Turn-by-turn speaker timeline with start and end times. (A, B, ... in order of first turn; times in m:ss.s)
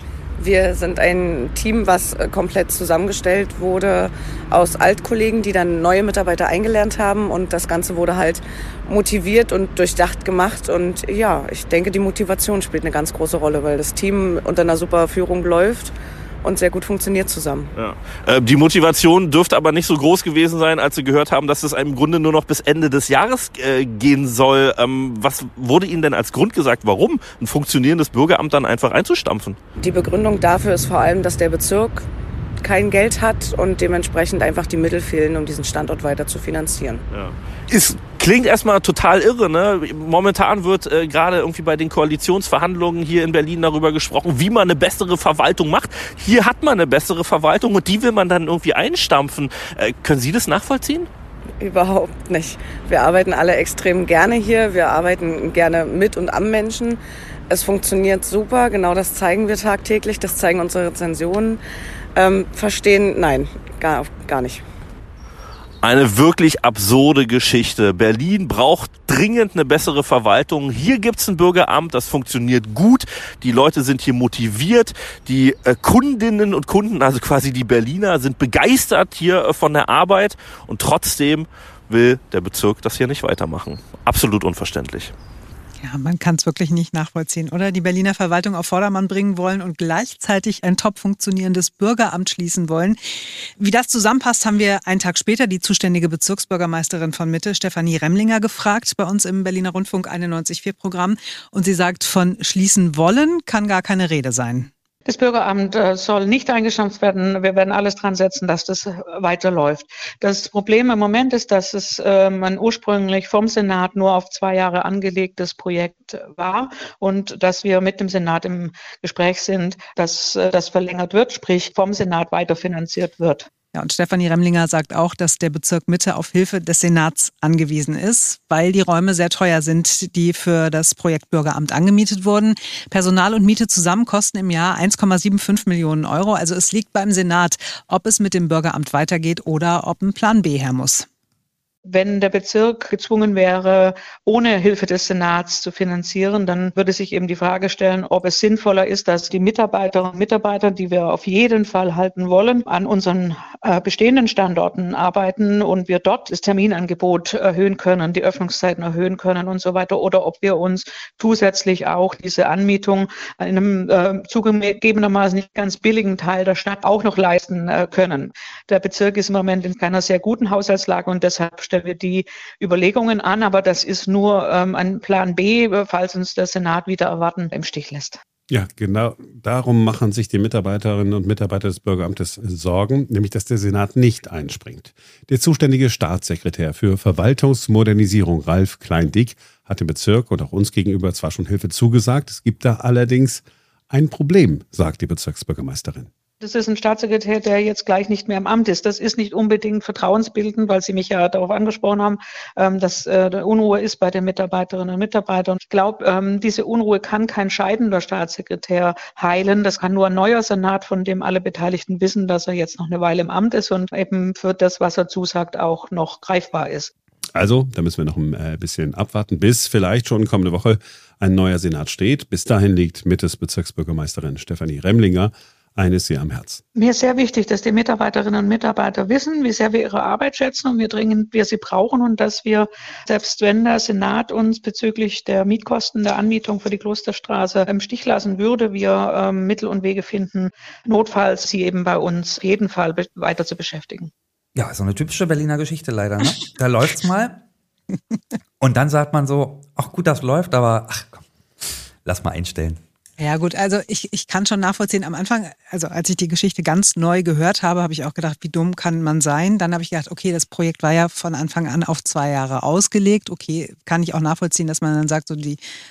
0:00.4-0:17.7 A
0:17.7-0:29.6 B
0:29.8-0:32.0 A
0:32.6-0:37.0 A
0:37.1-0:51.1 B
0:51.6-1:01.6 A
1:02.2-1:04.6 A
1:05.8-1:25.1 B
1:25.8-1:44.7 C
1:45.1-2:03.5 D
2:03.7-2:21.1 C
2:21.8-2:58.2 D
2:58.5-3:16.1 E
3:16.4-3:36.9 D
3:37.3-3:46.6 E
3:46.8-4:04.1 D
4:04.5-4:07.4 F
4:08.6-4:11.2 F
4:12.0-4:12.8 F
4:13.2-4:25.6 C